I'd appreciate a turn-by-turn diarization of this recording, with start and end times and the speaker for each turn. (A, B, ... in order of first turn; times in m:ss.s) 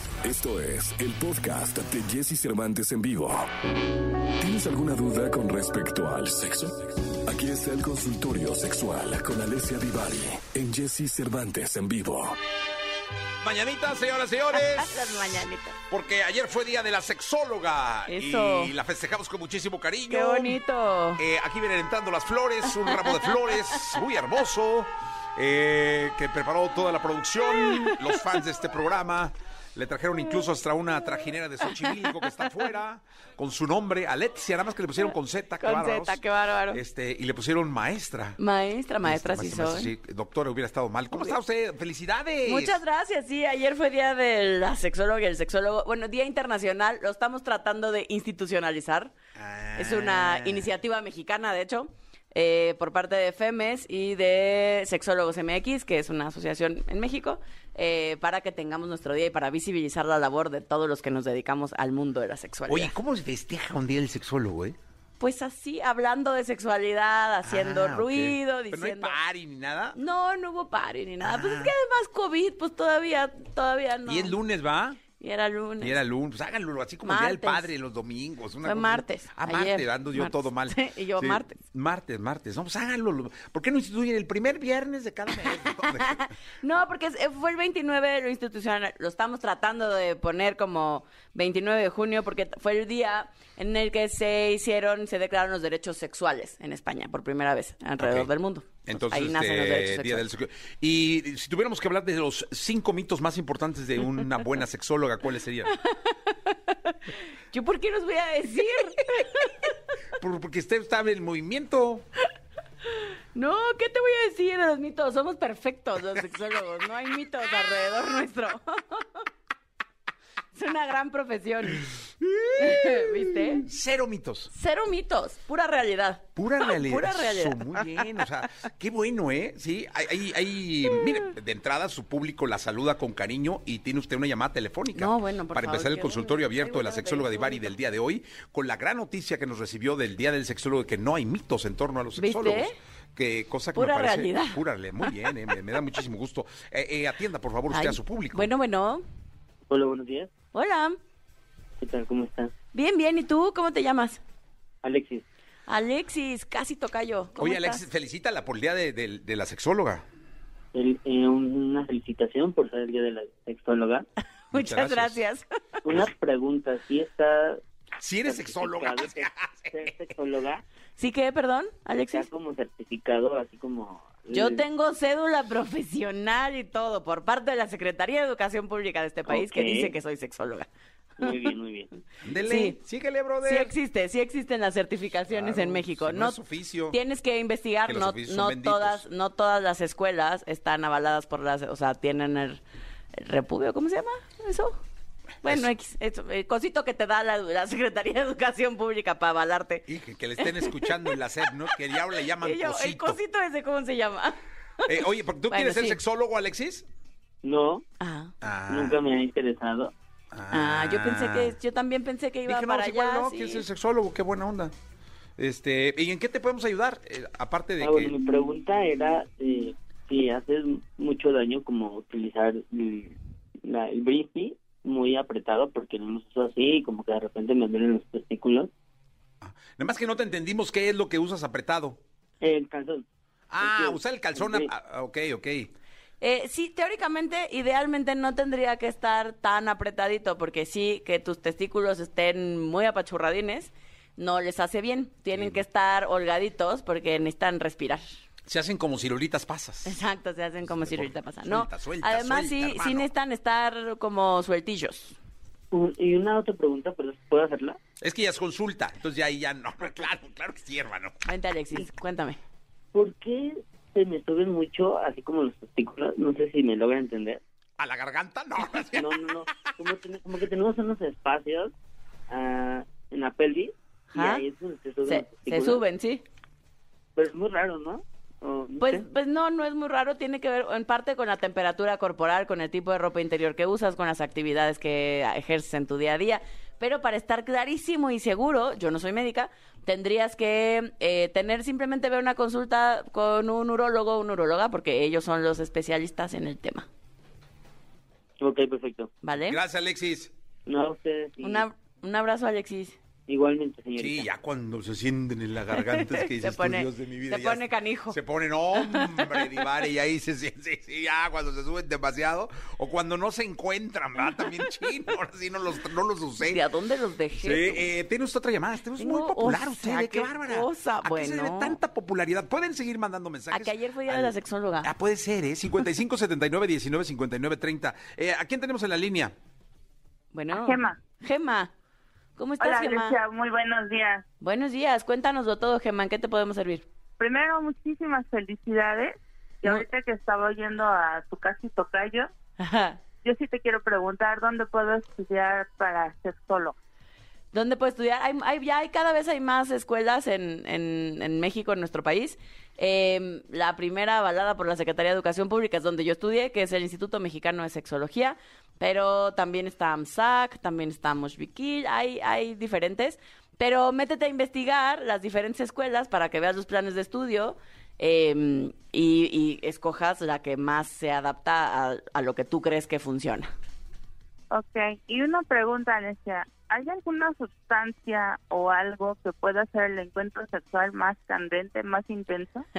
0:00.2-0:03.5 A
0:04.4-0:12.4 A
0:13.4-0:15.1 B
0:14.5-0:15.8 C
0:15.9-0:20.6 B
0:18.1-0:18.7 C
0:20.1-0:21.2 C
0:21.2-0:38.4 B
0:22.8-0:23.4 C
0:27.5-0:28.0 C
0:35.6-0:36.8 C
0:38.4-0:39.9 C
0:39.0-0:42.8 B
0:41.1-0:41.4 C
0:42.4-0:49.1 C
0:49.4-0:50.7 B
0:49.8-1:02.9 C
1:02.7-1:04.8 B
1:05.2-1:09.2 C
1:07.4-1:10.0 B
1:10.0-1:14.4 C
1:11.2-1:11.7 B
1:14.1-1:15.0 B
1:15.2-1:16.0 C
1:15.8-1:26.3 B
1:17.0-1:17.7 C
1:18.6-1:21.6 C
1:25.4-1:40.3 C
1:38.0-1:38.3 B
1:38.9-1:45.7 B
1:45.7-1:49.8 C
1:50.2-1:52.0 B
1:52.9-1:59.3 C
2:00.5-2:01.9 C
2:02.2-2:04.5 B
2:02.6-2:03.7 C
2:04.5-2:07.9 C
2:06.4-2:28.5 B
2:14.9-2:17.8 C
2:22.2-2:22.8 C
2:23.8-2:25.2 C
2:27.7-2:29.0 C
2:29.7-2:30.3 D
2:30.5-2:31.0 C
2:31.8-2:32.5 D
2:32.7-2:34.2 C
2:34.8-2:35.2 D
2:35.7-2:37.9 C
2:37.4-2:40.0 B
2:40.7-2:44.1 D
2:44.5-2:45.8 C
2:44.5-2:45.2 B
2:45.8-2:47.6 D
2:48.0-2:49.9 B
2:48.2-2:50.6 D
2:51.0-2:52.3 C
2:52.1-2:54.6 D
2:54.3-3:00.7 C
2:59.3-3:00.0 D
3:01.2-3:01.9 D
3:02.2-3:03.8 B
3:02.4-3:02.8 C
3:03.4-3:06.4 C
3:05.3-3:07.0 B
3:06.9-3:12.6 C
3:07.9-3:09.0 B
3:13.2-3:14.8 C
3:15.4-3:15.7 B
3:15.4-3:19.8 C
3:19.9-3:23.2 B
3:20.4-3:21.2 C
3:22.2-3:26.0 C
3:24.9-3:26.8 B
3:27.4-3:27.8 D
3:28.0-3:28.3 C
3:28.4-3:29.0 B
3:28.7-3:29.9 D
3:30.3-3:31.6 B
3:30.5-3:33.7 C
3:32.5-3:34.7 B
3:35.4-3:38.1 B
3:37.8-3:48.7 D
3:49.4-3:52.0 B
3:52.4-3:53.0 D
3:53.5-3:55.7 B
3:53.6-3:54.7 D
3:56.2-4:08.1 C
4:05.3-4:05.6 B
4:08.5-4:10.0 B
4:09.8-4:15.2 C
4:10.6-4:13.1 B
4:15.7-4:17.8 D
4:18.0-4:21.2 B
4:21.2-4:22.4 C
4:22.9-4:27.4 D
4:27.8-4:29.8 B
4:28.9-4:31.7 D
4:32.3-4:35.8 D
4:34.1-4:34.4 C
4:35.1-4:36.2 C
4:37.2-4:39.0 D
4:38.8-4:56.9 C
4:58.4-4:59.1 D
4:59.2-4:59.6 C
4:59.4-5:00.3 B
5:00.7-5:01.7 D
5:01.4-5:03.0 C
5:03.3-5:04.2 D
5:04.0-5:16.6 B
5:05.7-5:08.2 C
5:08.8-5:09.6 C
5:16.4-5:17.9 C
5:17.4-5:29.3 B
5:19.0-5:21.8 C
5:23.5-5:24.9 C
5:30.3-5:31.7 C
5:30.5-5:31.0 E
5:32.4-5:33.2 C
5:32.6-5:34.2 E
5:34.4-5:36.9 C
5:37.2-5:42.3 E
5:42.6-5:43.0 C
5:43.2-5:46.8 E
5:47.5-6:13.5 C
6:14.5-6:22.6 E